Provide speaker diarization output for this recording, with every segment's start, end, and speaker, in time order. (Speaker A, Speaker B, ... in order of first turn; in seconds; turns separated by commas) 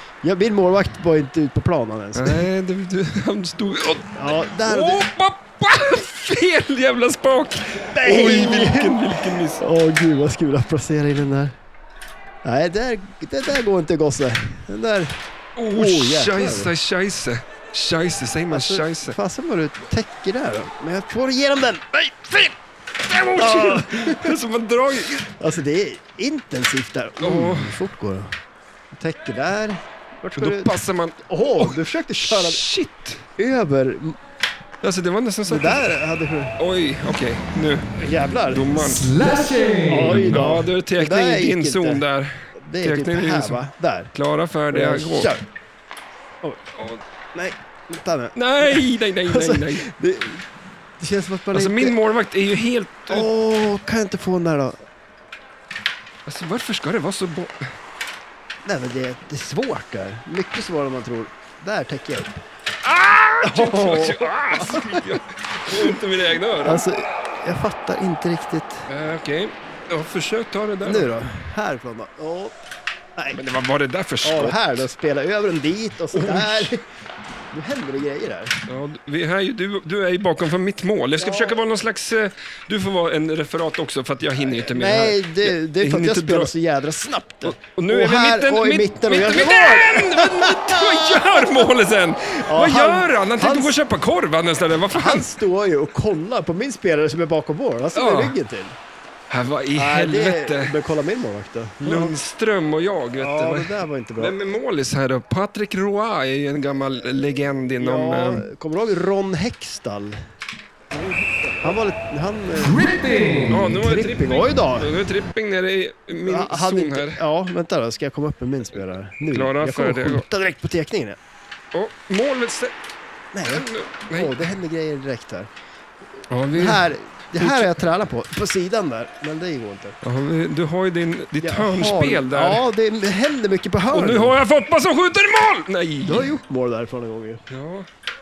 Speaker A: 0.2-2.5, Speaker B: 2.1-9.6, Speaker A: 4.1-5.0, Speaker A: 7.9-11.6, Speaker A: 12.4-15.2, Speaker B: 15.6-19.2, Speaker A: 15.7-16.7, Speaker A: 18.5-22.6, Speaker B: 23.0-25.3, Speaker A: 23.3-24.4, Speaker A: 25.4-28.4, Speaker B: 27.2-27.8, Speaker A: 28.9-32.6, Speaker B: 30.4-33.2, Speaker A: 33.4-34.2, Speaker B: 34.8-35.9, Speaker A: 35.5-36.5, Speaker B: 36.6-43.6, Speaker A: 38.0-42.0, Speaker A: 42.6-44.1, Speaker B: 44.1-45.3, Speaker A: 44.7-45.4, Speaker B: 46.7-47.0, Speaker A: 47.3-52.0, Speaker B: 48.3-49.9, Speaker B: 51.5-53.3, Speaker A: 53.1-54.8, Speaker B: 56.3-57.7, Speaker A: 58.6-62.4, Speaker B: 62.8-66.8, Speaker A: 63.4-66.0, Speaker A: 66.5-68.8, Speaker B: 68.9-71.1, Speaker A: 70.8-72.5, Speaker B: 73.3-74.8, Speaker A: 74.2-76.8, Speaker B: 76.1-76.7, Speaker A: 77.5-78.6, Speaker B: 78.7-86.5, Speaker A: 81.2-81.6, Speaker A: 84.5-91.7, Speaker B: 87.4-95.3, Speaker A: 92.3-93.8, Speaker A: 94.9-98.8, Speaker B: 97.9-98.3, Speaker B: 99.3-100.8, Speaker A: 99.7-102.2, Speaker B: 101.8-108.5, Speaker A: 103.2-104.4, Speaker A: 107.8-110.2, Speaker B: 110.9-111.6, Speaker A: 111.6-114.9, Speaker B: 113.5-117.2, Speaker A: 116.2-121.2, Speaker B: 119.3-120.2, Speaker B: 121.7-122.7, Speaker A: 123.3-125.5, Speaker B: 123.5-124.4, Speaker B: 126.3-126.8, Speaker A: 126.5-130.0, Speaker B: 127.4-127.8, Speaker B: 130.0-132.7, Speaker A: 131.4-134.4, Speaker B: 133.9-136.3, Speaker A: 136.0-137.4, Speaker B: 137.5-137.9